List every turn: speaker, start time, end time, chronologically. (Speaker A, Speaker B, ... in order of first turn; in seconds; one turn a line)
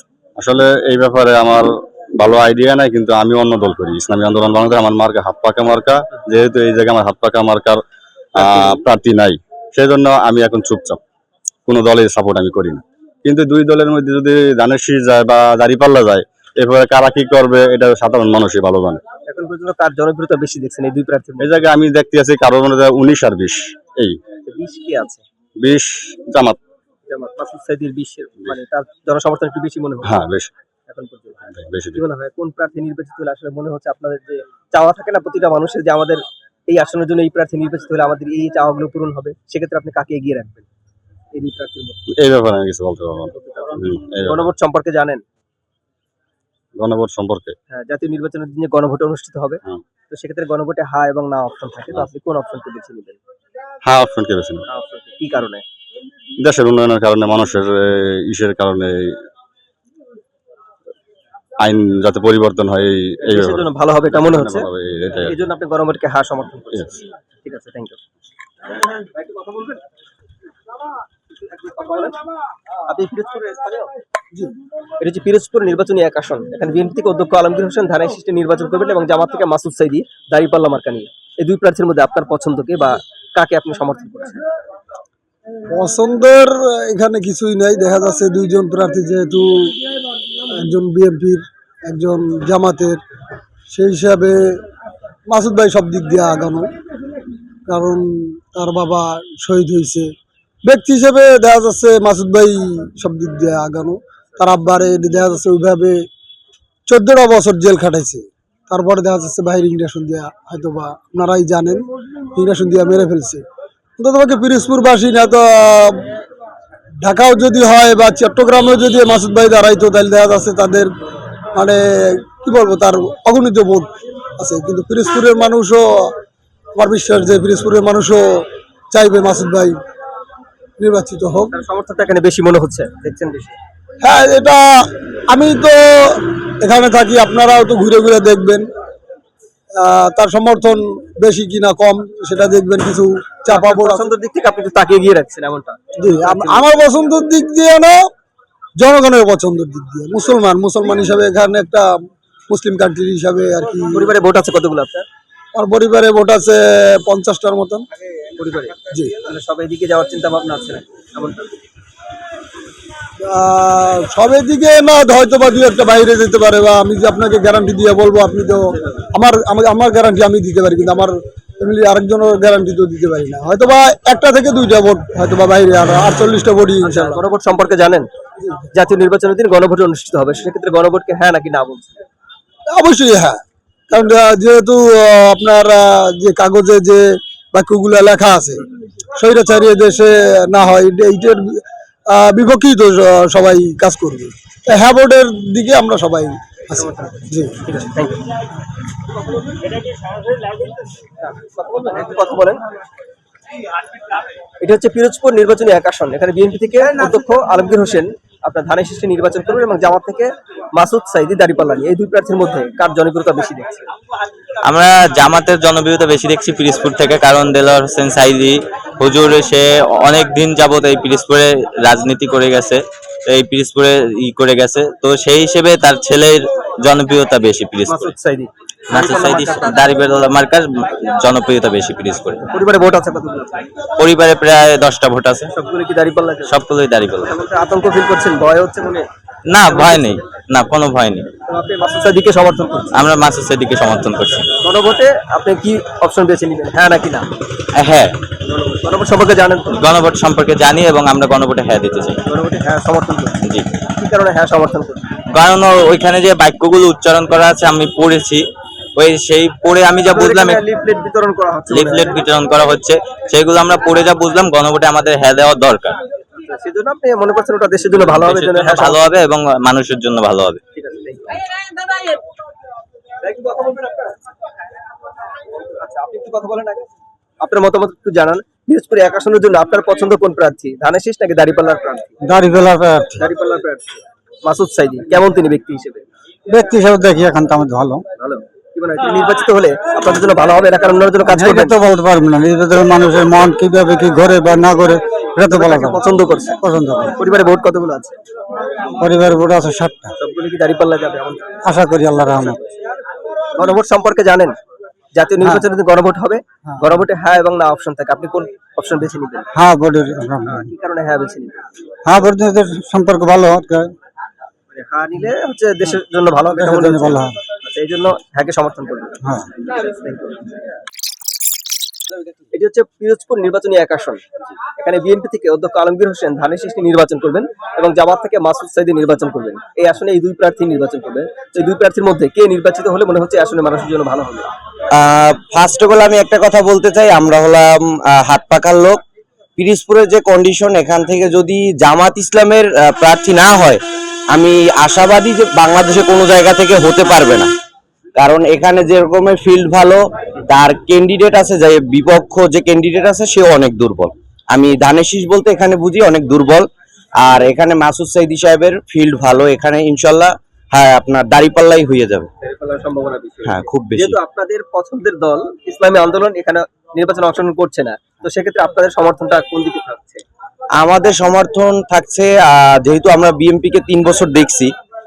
Speaker A: 0.4-1.6
Speaker A: 2.2-7.8
Speaker A: 8.3-11.0
Speaker A: 11.7-19.0
Speaker B: 19.3-21.6
Speaker A: 21.4-24.2
Speaker B: 24.4-25.2
Speaker A: 25.6-26.6
Speaker B: 27.1-30.1
Speaker A: 30.1-30.5
Speaker B: 30.9-40.6
Speaker A: 31.6-32.0
Speaker B: 41.3-42.0
Speaker A: 42.1-44.5
Speaker B: 43.3-45.2
Speaker A: 46.8-47.5
Speaker B: 47.7-53.2
Speaker A: 53.9-54.6
Speaker B: 54.7-55.6
Speaker A: 56.4-59.1
Speaker A: 61.6-65.3
Speaker B: 63.3-64.7
Speaker B: 65.2-68.0
Speaker B: 68.7-69.8
Speaker B: 71.3-72.2
Speaker B: 72.9-73.9
Speaker B: 75.0-84.4
Speaker C: 85.7-89.8
Speaker C: 90.5-93.0
Speaker C: 93.7-94.6
Speaker C: 95.3-96.7
Speaker C: 97.7-100.1
Speaker C: 100.6-106.0
Speaker C: 106.9-113.4
Speaker C: 114.0-116.0
Speaker C: 117.0-120.9
Speaker C: 121.5-126.1
Speaker C: 126.7-129.8
Speaker C: 130.8-131.5
Speaker B: 131.5-133.6
Speaker C: 134.0-134.7
Speaker C: 135.3-138.7
Speaker C: 139.7-144.1
Speaker B: 143.5-146.8
Speaker C: 146.0-148.1
Speaker C: 148.8-151.9
Speaker C: 152.5-154.2
Speaker B: 153.9-155.1
Speaker C: 155.5-157.8
Speaker B: 158.4-161.5
Speaker C: 163.2-177.2
Speaker B: 176.8-178.1
Speaker B: 178.7-182.0
Speaker C: 182.7-188.6
Speaker C: 189.2-197.6
Speaker B: 196.7-198.2
Speaker B: 201.2-202.6
Speaker B: 204.6-213.9
Speaker D: 214.6-228.1
Speaker B: 227.9-229.8
Speaker D: 228.9-232.4
Speaker B: 232.5-233.6
Speaker D: 234.0-235.5
Speaker B: 235.5-236.6
Speaker D: 236.5-237.3
Speaker B: 237.2-239.1
Speaker D: 239.5-241.3
Speaker B: 239.7-240.2
Speaker B: 241.5-242.9
Speaker D: 242.9-244.4
Speaker B: 244.5-247.3
Speaker D: 247.8-248.1
Speaker B: 248.5-249.8
Speaker D: 249.7-252.2
Speaker B: 252.3-253.4
Speaker B: 254.0-255.1
Speaker D: 255.3-258.4
Speaker D: 258.9-260.6
Speaker B: 260.1-262.2
Speaker D: 261.7-266.0
Speaker B: 266.4-269.0
Speaker D: 268.0-270.6
Speaker B: 270.7-271.4
Speaker B: 273.2-274.2
Speaker B: 275.6-276.9
Speaker B: 277.4-282.1
Speaker E: 282.2-283.2
Speaker B: 283.2-286.0
Speaker E: 286.5-288.0
Speaker B: 288.2-291.8
Speaker E: 291.2-296.0
Speaker B: 295.5-296.6
Speaker E: 296.6-297.1
Speaker B: 297.1-298.1
Speaker E: 299.0-300.1
Speaker B: 300.2-301.5
Speaker E: 301.6-302.6
Speaker B: 302.3-302.8
Speaker B: 303.6-304.5
Speaker B: 305.1-309.5
Speaker E: 309.5-310.7
Speaker B: 310.4-311.6
Speaker E: 312.1-313.9
Speaker B: 314.7-320.6
Speaker E: 316.6-317.4
Speaker B: 322.5-334.5
Speaker F: 334.9-339.0
Speaker F: 339.6-343.8
Speaker F: 344.3-347.5
Speaker F: 348.2-356.6
Speaker F: 357.2-362.3
Speaker B: 362.4-370.2
Speaker F: 363.4-364.2
Speaker F: 370.8-374.7